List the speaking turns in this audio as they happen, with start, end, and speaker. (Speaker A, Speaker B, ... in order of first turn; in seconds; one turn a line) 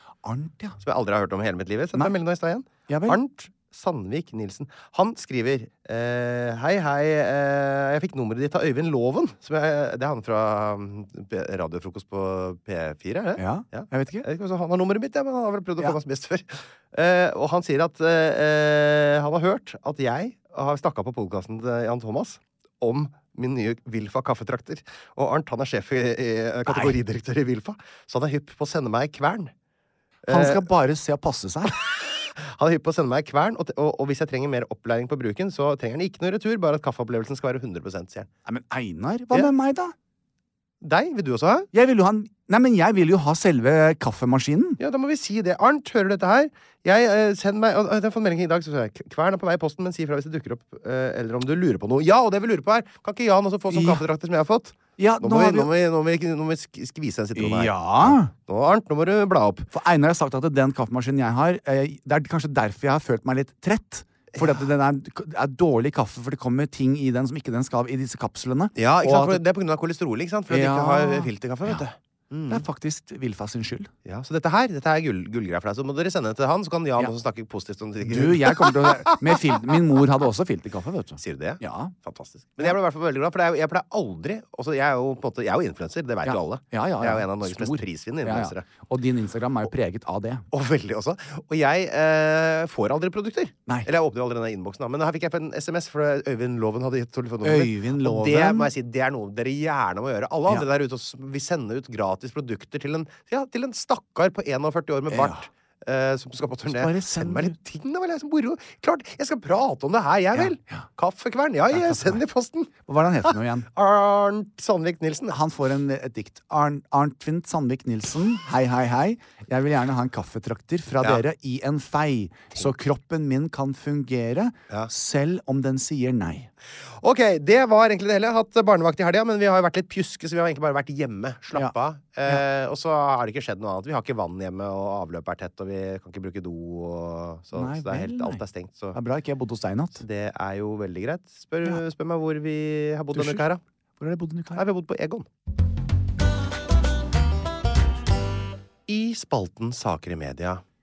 Speaker A: 0.2-0.8
Speaker B: 0.8-29.5
Speaker A: 2.9-3.2
Speaker A: 13.4-14.2
Speaker A: 26.6-27.0
Speaker B: 30.2-30.6
Speaker A: 30.3-31.8
Speaker B: 31.7-38.3
Speaker A: 38.5-39.9
Speaker B: 40.8-41.7
Speaker A: 41.7-44.8
Speaker B: 44.8-59.7
Speaker A: 53.7-54.0
Speaker A: 55.0-55.7
Speaker A: 57.4-58.3
Speaker A: 59.7-69.4
Speaker B: 64.3-64.6
Speaker B: 68.8-72.6
Speaker A: 70.5-71.9
Speaker A: 72.5-73.9
Speaker B: 74.0-79.8
Speaker A: 78.0-81.9
Speaker B: 81.2-88.7
Speaker A: 86.2-90.5
Speaker B: 90.5-112.7
Speaker A: 97.4-98.7
Speaker A: 105.1-105.4
Speaker A: 106.7-107.5
Speaker A: 110.3-110.8
Speaker A: 111.7-112.2
Speaker A: 112.9-113.7
Speaker B: 113.2-115.4
Speaker A: 115.3-126.5
Speaker B: 127.0-139.0
Speaker A: 137.5-138.4
Speaker A: 138.9-140.0
Speaker B: 140.0-143.6
Speaker A: 143.1-143.4
Speaker A: 144.0-144.6
Speaker B: 144.6-145.2
Speaker B: 148.9-150.6